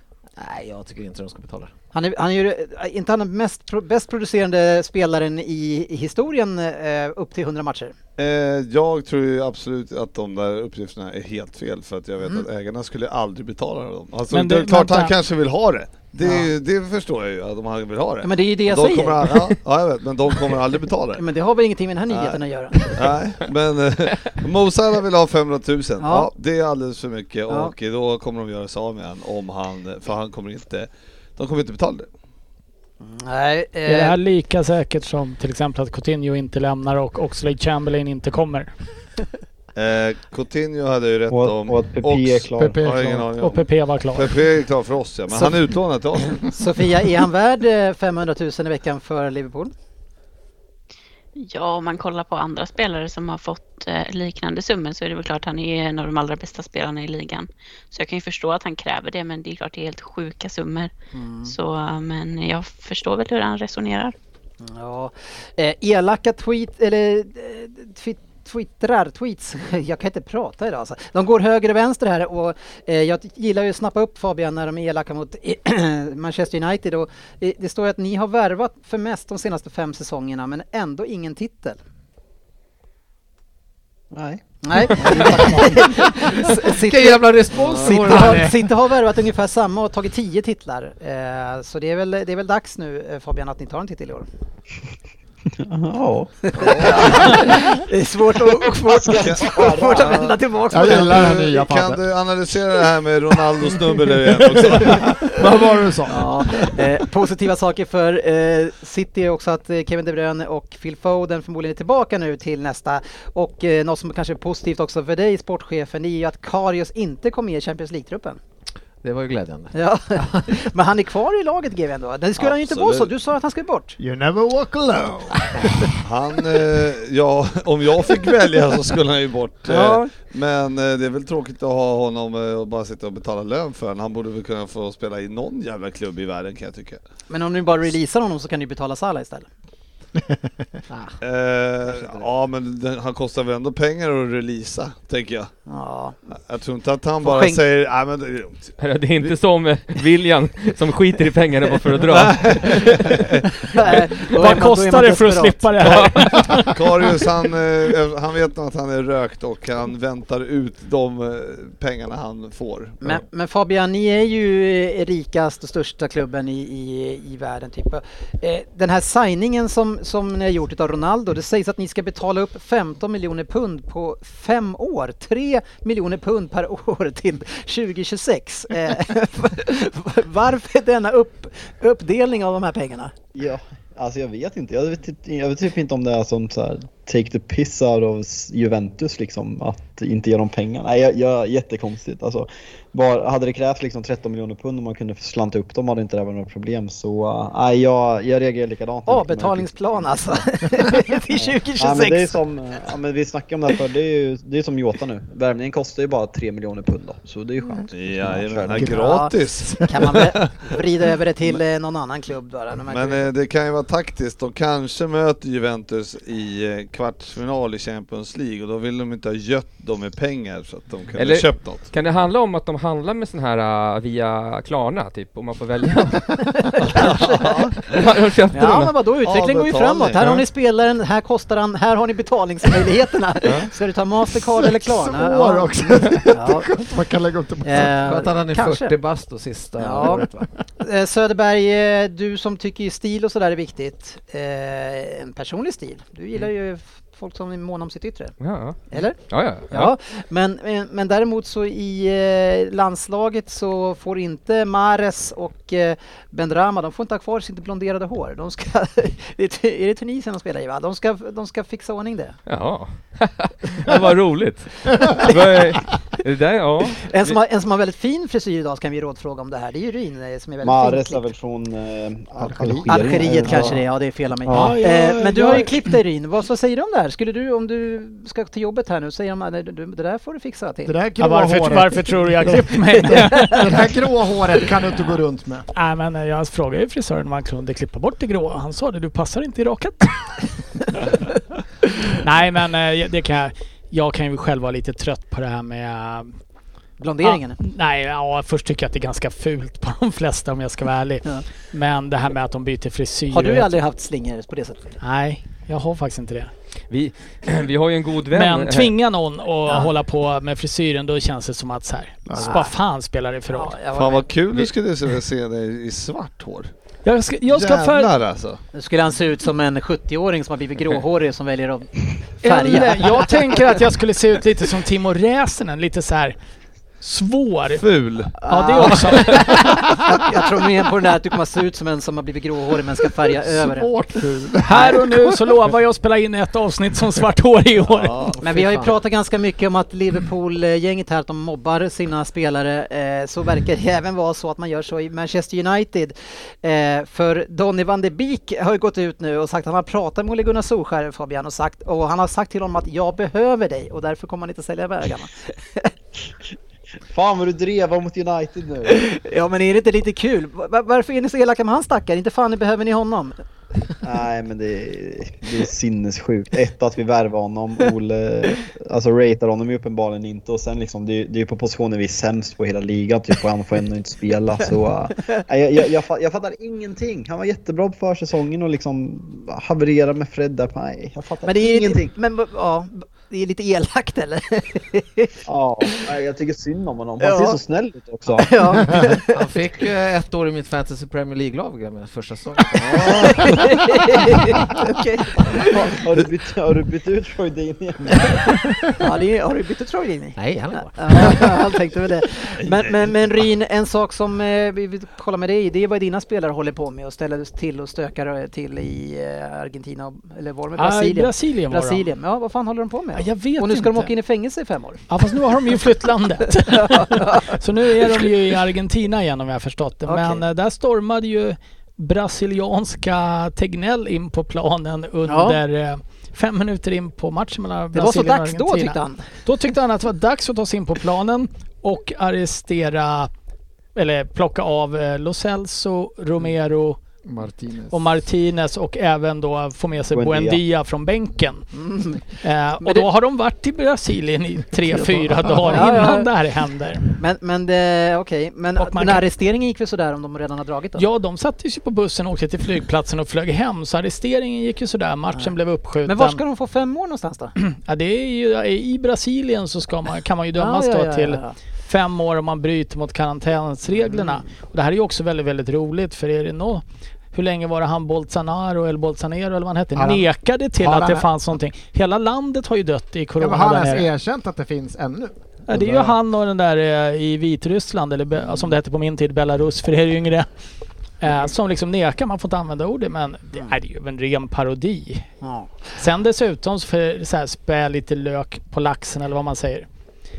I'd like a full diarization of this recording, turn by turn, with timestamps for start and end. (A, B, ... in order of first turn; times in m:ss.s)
0:00.4-0:01.7 A
0:01.9-0:07.9 B
0:08.2-0:21.2 C
0:14.3-0:15.2 D
0:16.2-0:16.5 B
0:18.2-0:19.5 B
0:21.2-0:23.1 B
0:22.1-0:32.1 C
0:26.0-0:26.3 B
0:27.5-0:27.7 B
0:33.0-0:34.2 B
0:33.8-0:38.7 D
0:39.7-0:46.5 C
0:41.3-0:42.8 E
0:42.6-0:43.3 F
0:43.4-0:44.4 D
0:45.3-0:45.6 B
0:46.3-0:49.7 B
0:51.4-1:00.9 G
1:01.1-1:01.5 B
1:01.4-1:04.1 G
1:04.6-1:21.8 B
1:24.1-1:25.9 E
1:24.6-1:34.3 B
1:25.8-1:28.7 A
1:35.6-1:37.5 E
1:36.5-1:41.4 B
1:36.5-1:37.6 C
1:38.8-1:40.3 E
1:40.0-1:40.3 C
1:40.7-1:42.0 F
1:40.9-1:45.4 C
1:44.6-1:46.7 F
1:44.8-1:45.2 B
1:46.1-1:58.4 B
1:59.0-2:00.5 A
1:59.7-2:04.0 B
2:02.4-2:03.1 C
2:04.0-2:05.7 F
2:06.0-2:17.0 C
2:09.7-2:10.1 B
2:17.3-2:19.5 B
2:20.9-2:21.2 A
2:21.2-2:25.5 C
2:21.9-2:22.3 A
2:25.7-2:26.2 B
2:26.4-2:29.3 C
2:27.2-2:27.6 B
2:28.8-2:33.2 H
2:32.0-2:33.9 C
2:33.6-2:35.9 B
2:34.2-2:37.2 D
2:35.8-2:36.1 H
2:36.5-2:43.2 C
2:43.0-3:03.1 B
3:03.3-3:20.4 E
3:19.1-3:22.4 B
3:21.4-3:29.0 E
3:27.9-3:30.7 C
3:28.9-3:33.3 B
3:32.9-3:41.9 C
3:41.1-3:47.1 H
3:46.6-3:47.7 B
3:46.8-3:47.8 C
3:47.8-3:49.0 H
3:48.5-3:56.7 B
3:49.2-3:50.2 C
3:54.6-3:57.9 F
3:57.6-3:58.9 B
3:57.9-4:00.5 A
3:59.8-4:00.2 B
4:00.8-4:08.3 B
4:08.4-4:09.9 H
4:08.9-4:09.2 B
4:09.7-4:22.4 B
4:22.5-4:27.4 H
4:27.0-4:31.3 B
4:30.6-4:33.9 E
4:32.4-4:33.8 F
4:32.9-4:40.9 B
4:34.4-4:34.8 E
4:34.5-4:35.8 F
4:40.9-4:45.6 F
4:41.2-4:43.9 D
4:45.7-4:51.0 D
4:52.1-4:56.3 D
4:57.0-4:57.6 B
4:57.2-5:03.7 D
5:03.3-5:04.9 B
5:05.0-5:06.5 D
5:06.9-5:08.9 H
5:08.3-5:13.8 D
5:13.5-5:14.3 B
5:13.9-5:16.7 C
5:17.0-5:18.1 D
5:17.5-5:18.6 C
5:18.7-5:23.6 B
5:22.4-5:26.4 D
5:27.0-5:27.8 D
5:27.7-5:28.9 C
5:28.4-5:29.5 D
5:28.4-5:33.9 B
5:33.4-5:34.8 F
5:34.6-5:38.3 D
5:34.7-5:35.4 B
5:37.8-5:38.4 C
5:38.4-5:55.9 B
5:38.4-5:39.0 A
5:57.1-5:59.0 E
5:58.9-6:03.4 B
6:04.0-6:22.1 E
6:15.2-6:15.4 B
6:21.4-6:25.3 B
6:25.4-6:29.0 E
6:27.2-6:27.6 B
6:28.4-6:29.4 B
6:29.3-6:33.5 A
6:32.9-6:35.7 B
6:35.6-6:38.3 E
6:39.0-6:55.0 B
6:40.4-6:41.3 A
6:42.6-6:43.2 C
6:50.8-6:52.1 D
6:53.1-6:54.1 D
6:55.1-7:13.3 D
6:56.7-6:58.2 B
7:00.0-7:00.4 B
7:05.2-7:05.6 B
7:07.9-7:09.3 B
7:13.9-7:17.0 D
7:17.2-7:18.1 F
7:17.9-7:21.6 D
7:20.1-7:20.6 E
7:21.7-7:22.2 B
7:22.4-7:27.2 D
7:22.8-7:23.1 B
7:24.9-7:25.9 F
7:25.7-7:26.3 B
7:27.2-7:31.0 B
7:28.8-7:29.2 D
7:31.0-7:36.4 D
7:35.3-7:37.5 B
7:37.6-7:54.1 D
7:40.6-7:41.6 B
7:44.0-7:44.4 B
7:49.9-7:50.3 F
7:50.8-7:51.3 F
7:53.4-7:56.1 F
7:55.7-8:00.5 D
8:01.2-8:05.3 D
8:05.4-8:05.7 B
8:06.0-8:09.9 D